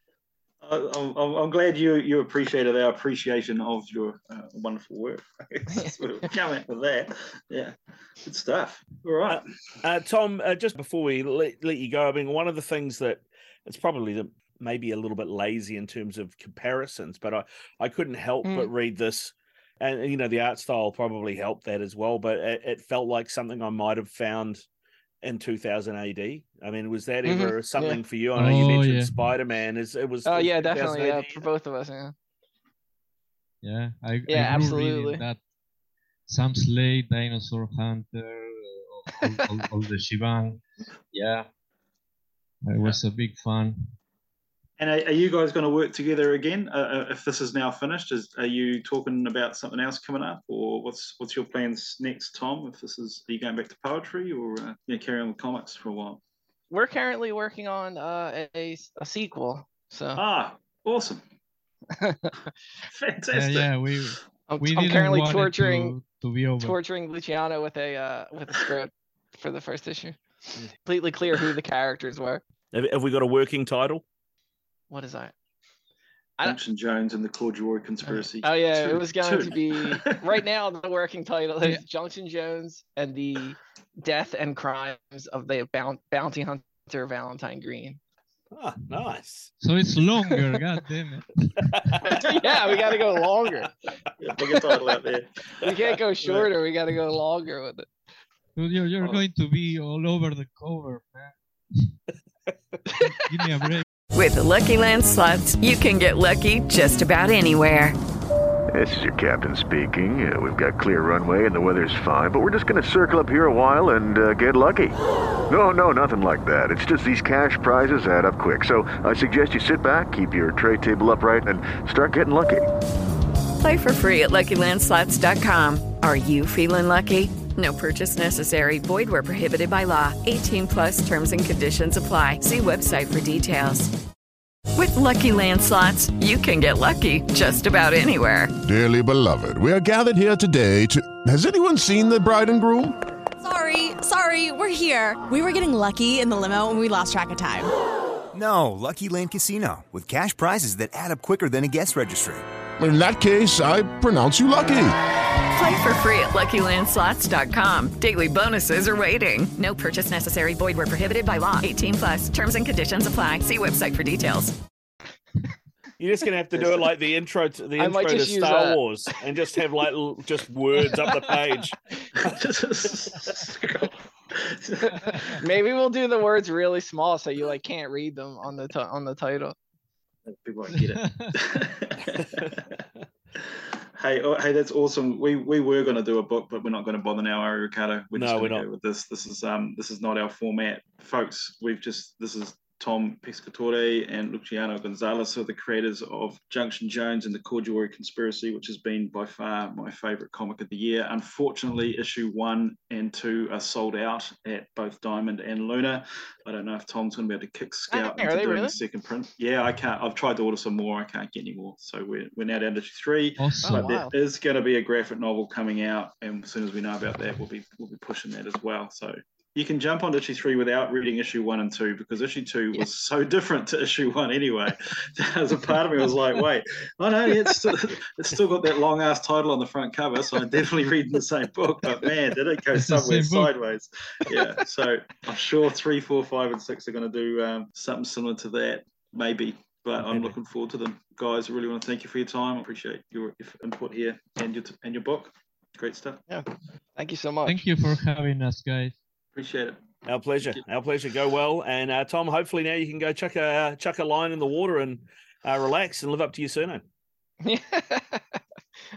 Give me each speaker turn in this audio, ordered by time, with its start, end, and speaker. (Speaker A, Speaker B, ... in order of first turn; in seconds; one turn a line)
Speaker A: 0.6-9.4
Speaker B: 9.3-24.6
Speaker C: 18.4-18.7
Speaker B: 25.2-31.5
Speaker C: 27.3-28.0
Speaker D: 28.4-29.3
Speaker C: 30.3-32.1
Speaker D: 33.6-35.4
Speaker C: 34.3-35.2
Speaker D: 36.3-41.5
Speaker D: 42.6-43.9
Speaker A: 44.8-56.2
Speaker C: 56.7-60.2
Speaker A: 60.2-61.2
Speaker C: 61.9-62.5
Speaker A: 62.9-63.7
Speaker D: 63.3-66.8
Speaker C: 64.5-66.0
Speaker C: 66.6-70.2
Speaker C: 70.8-72.4
Speaker B: 72.7-74.0
Speaker C: 74.9-75.3
Speaker A: 76.4-80.2
Speaker C: 78.0-88.0
Speaker B: 88.5-89.5
Speaker D: 89.6-92.1
Speaker B: 91.7-92.4
Speaker C: 92.0-93.7
Speaker A: 94.2-95.7
Speaker C: 95.6-97.9
Speaker A: 96.2-96.5
Speaker D: 98.6-102.0
Speaker D: 103.2-103.9
Speaker E: 104.1-108.0
Speaker F: 108.7-115.0
Speaker F: 115.5-122.7
Speaker E: 123.6-133.9
Speaker E: 134.8-138.5
Speaker G: 138.6-143.0
Speaker H: 143.4-147.7
Speaker I: 148.3-152.4
Speaker G: 152.8-155.0
Speaker E: 155.5-164.6
Speaker B: 166.0-171.8
Speaker C: 167.8-168.8
Speaker A: 172.2-175.4
Speaker C: 174.8-179.6
Speaker A: 180.3-182.7
Speaker D: 180.7-181.3
Speaker A: 183.4-246.2
Speaker B: 188.2-188.7
Speaker C: 207.9-208.8
Speaker D: 213.4-214.1
Speaker C: 213.6-214.1
Speaker D: 232.7-233.6
Speaker C: 246.3-247.6
Speaker D: 247.4-249.0
Speaker A: 249.4-249.8
Speaker B: 250.1-256.8
Speaker C: 257.4-258.4